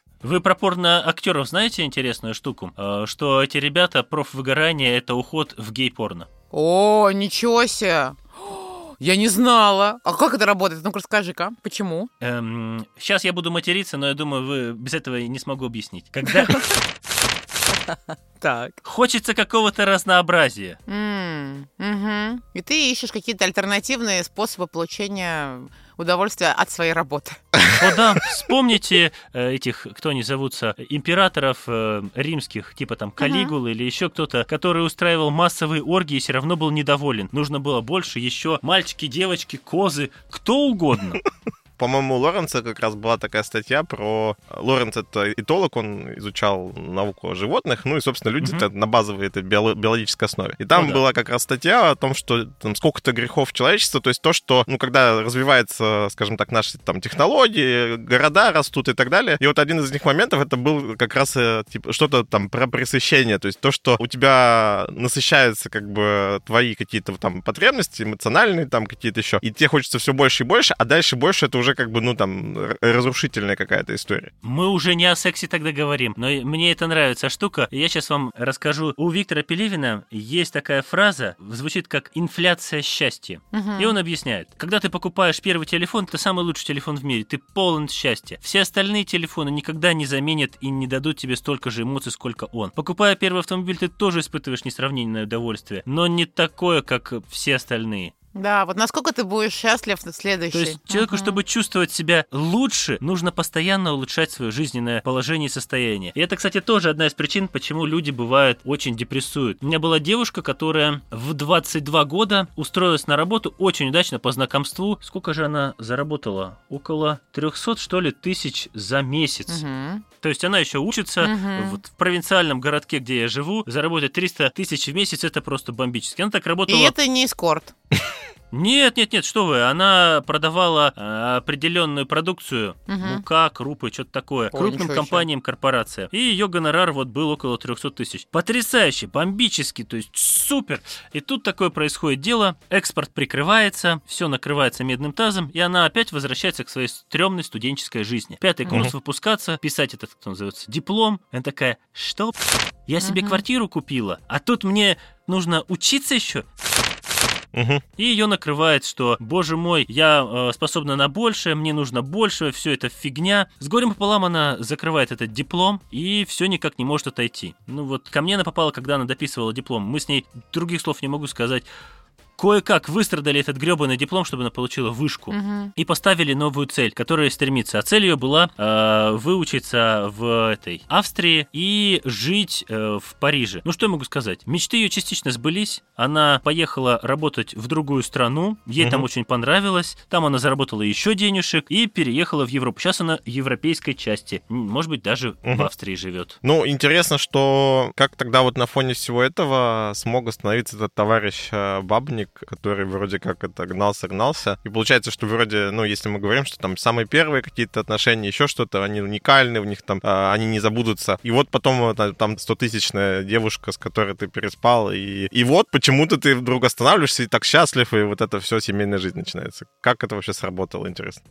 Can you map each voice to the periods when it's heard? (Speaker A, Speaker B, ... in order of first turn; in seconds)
Speaker A: 0.2-6.3, 12.2-16.7, 18.8-20.8, 27.8-41.2, 48.4-48.7, 50.7-51.0, 74.4-98.1, 100.5-119.6, 120.2-126.9, 128.5-152.3, 152.8-156.4, 158.0-171.7, 172.4-196.3
Speaker B: 6.5-12.1, 16.2-16.7, 18.4-18.8, 20.9-27.4, 33.2-33.5, 83.5-84.0, 98.3-101.4, 119.5-120.0, 121.2-121.8, 126.7-127.7, 132.9-133.2, 134.5-135.2, 148.7-148.9, 153.0-153.4, 175.3-175.7
Speaker C: 41.8-74.3, 157.5-157.8, 188.8-189.1, 196.4-221.2